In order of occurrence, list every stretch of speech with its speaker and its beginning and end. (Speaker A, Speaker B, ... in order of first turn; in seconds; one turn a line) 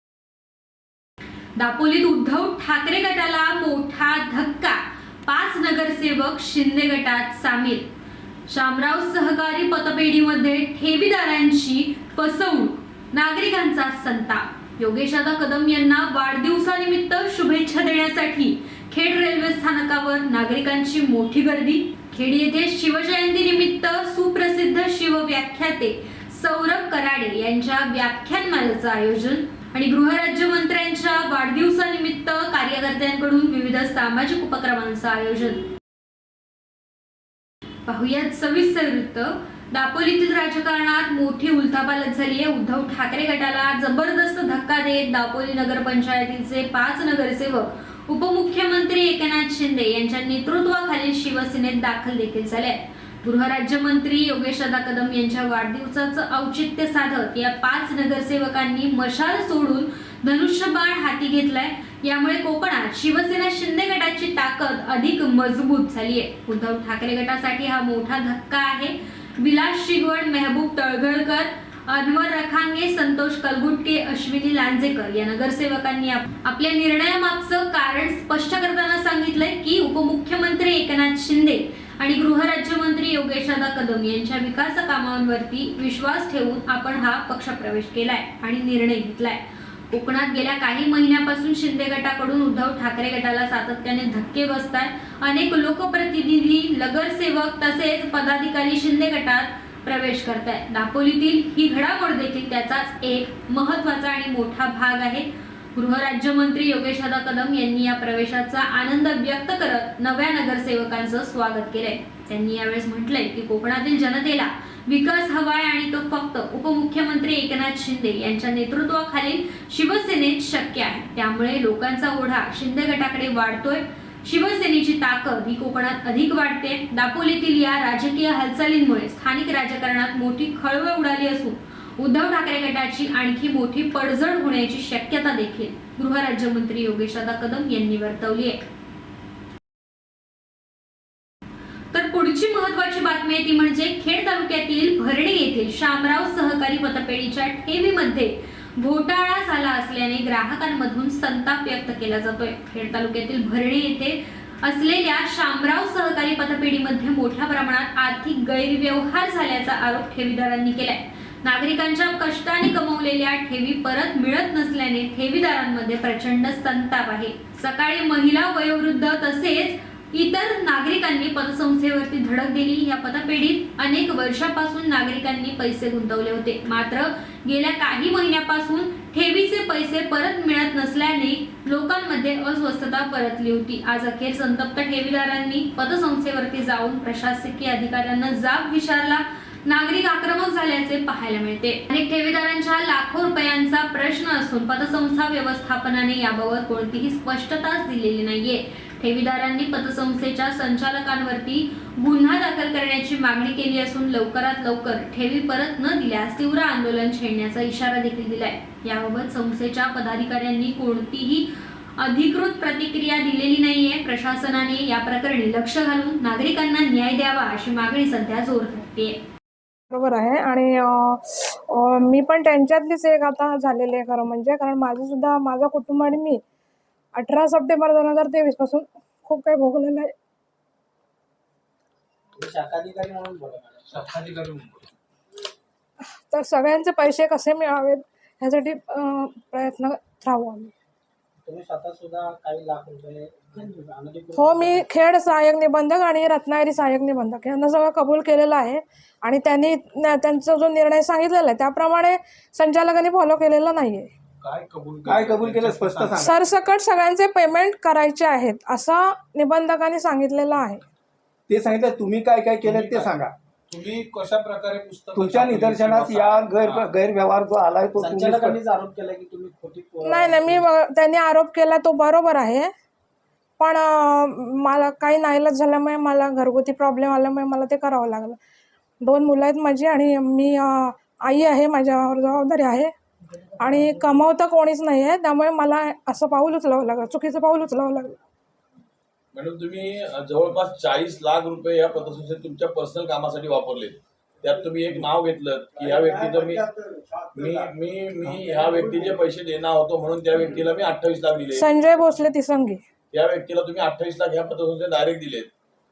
Speaker A: 1.6-7.8
Speaker A: 8.5-35.7
Speaker A: 37.9-138.6
Speaker A: 141.9-219.2
Speaker B: 219.9-226.4
Speaker B: 227.1-230.1
Speaker C: 232.3-234.1
Speaker D: 233.9-234.9
Speaker B: 236.3-240.7
Speaker C: 241.4-244.9
Speaker B: 244.3-254.1
Speaker D: 254.4-256.3
Speaker E: 255.1-256.3
Speaker B: 256.2-260.8
Speaker E: 261.5-263.3
Speaker D: 262.6-263.2
Speaker D: 263.7-266.9
Speaker E: 265.1-268.6
Speaker C: 267.9-270.6
Speaker B: 270.0-272.7
Speaker B: 273.6-278.4
Speaker B: 279.0-282.9
Speaker B: 283.6-288.2
Speaker F: 289.3-296.6
Speaker C: 296.0-296.5
Speaker F: 297.3-301.7
Speaker B: 301.5-302.8
Speaker F: 303.1-305.5